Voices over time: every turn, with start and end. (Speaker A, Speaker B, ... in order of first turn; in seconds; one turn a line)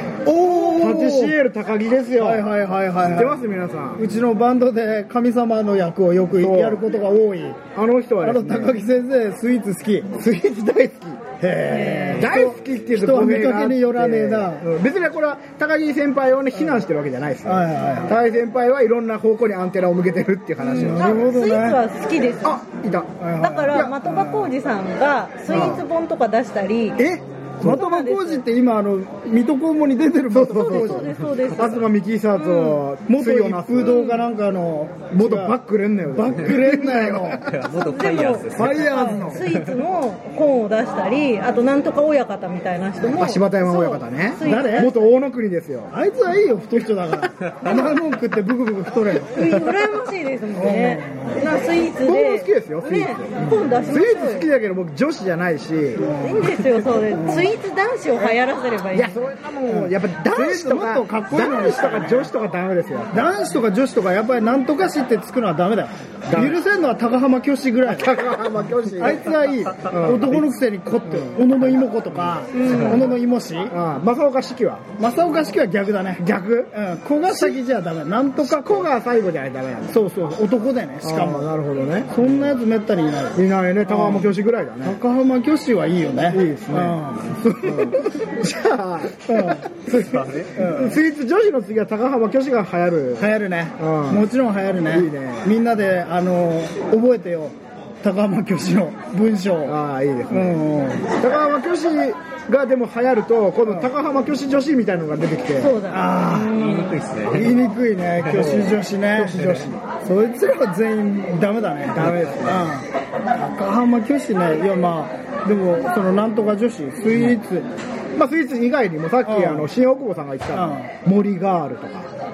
Speaker A: 0.3-1.4
Speaker B: 0.4-2.5
Speaker A: 2.2-3.4
Speaker B: 3.0-4.0
Speaker A: 4.0-7.6
Speaker B: 6.4-6.8
Speaker B: 7.8-8.8
Speaker A: 8.2-10.1
Speaker B: 10.2-11.2
Speaker A: 11.4-14.7
Speaker C: 11.7-12.3
Speaker B: 12.1-21.4
Speaker A: 17.4-18.2
Speaker C: 20.6-22.6
Speaker A: 20.8-21.8
Speaker B: 22.4-23.1
Speaker A: 23.2-24.5
Speaker C: 23.4-27.0
Speaker B: 25.5-25.9
Speaker A: 25.5-25.8
Speaker A: 27.0-31.1
Speaker C: 27.6-28.4
Speaker B: 30.3-34.1
Speaker C: 30.5-32.8
Speaker A: 33.1-37.5
Speaker C: 33.8-34.2
Speaker B: 35.1-37.5
Speaker D: 37.3-39.0
Speaker C: 37.6-45.0
Speaker B: 38.6-39.5
Speaker A: 38.6-39.6
Speaker B: 43.1-45.9
Speaker A: 44.4-44.9
Speaker A: 45.9-49.7
Speaker C: 49.3-54.5
Speaker A: 50.6-51.4
Speaker B: 52.0-56.1
Speaker A: 56.0-57.5
Speaker C: 56.2-59.2
Speaker B: 58.9-63.3
Speaker A: 59.7-62.3
Speaker A: 63.1-68.2
Speaker B: 66.3-66.6
Speaker B: 67.8-70.5
Speaker A: 69.0-73.8
Speaker B: 71.1-71.6
Speaker B: 72.2-73.1
Speaker C: 72.5-73.1
Speaker B: 73.7-74.9
Speaker A: 75.0-78.9
Speaker B: 76.2-76.7
Speaker B: 77.2-77.6
Speaker B: 78.4-80.0
Speaker A: 79.9-81.5
Speaker B: 81.0-82.6
Speaker A: 82.1-88.0
Speaker B: 83.3-85.0
Speaker B: 86.3-94.3
Speaker A: 89.3-89.7
Speaker D: 90.1-90.5
Speaker A: 90.5-91.0
Speaker A: 93.2-99.8
Speaker B: 94.9-95.5
Speaker B: 99.7-105.8
Speaker A: 100.3-101.1
Speaker C: 105.6-107.0
Speaker A: 105.9-106.5
Speaker D: 106.5-108.5
Speaker A: 107.3-117.7
Speaker B: 108.4-109.8
Speaker B: 111.9-112.7
Speaker B: 118.2-122.1
Speaker A: 119.3-119.7
Speaker A: 120.5-120.9